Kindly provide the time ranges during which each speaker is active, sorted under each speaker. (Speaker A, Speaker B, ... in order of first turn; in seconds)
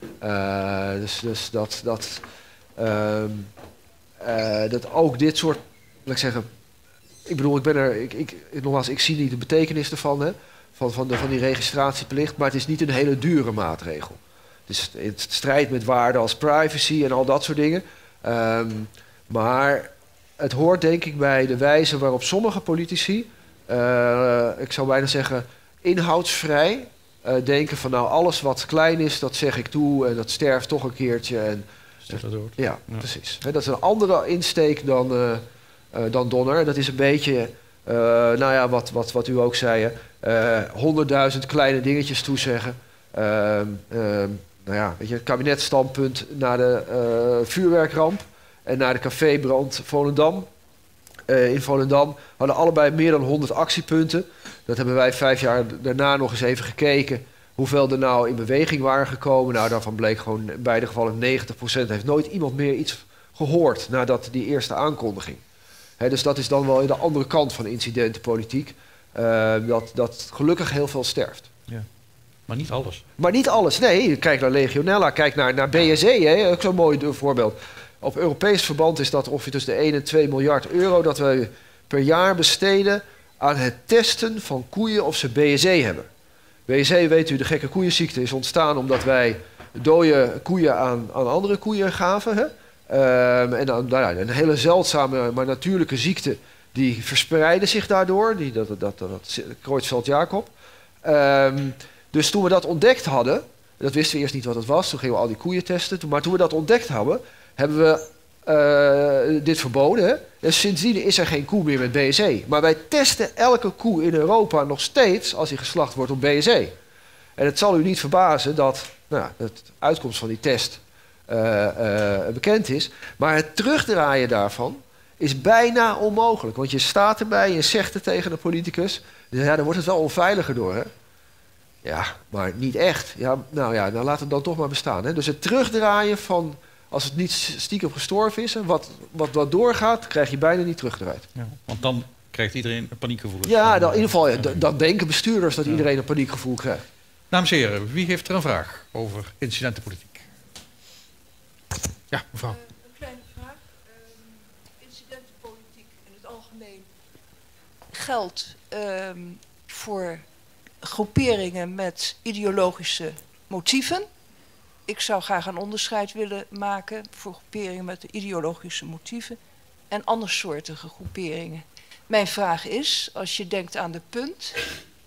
Speaker A: 0.2-2.2, 2.8-3.5, 4.2-6.5, 7.3-31.6, 32.6-50.5, 51.3-65.4, 66.0-71.5, 73.2-86.1, 86.7-100.5, 101.0-116.7, 117.4-130.9, 131.8-141.3, 143.5-146.9
Speaker B: 32.1-33.0, 72.5-73.0, 141.4-144.6, 147.3-150.2
Speaker C: 152.4-156.9, 157.9-160.2, 160.8-164.1, 164.9-169.4, 169.9-174.7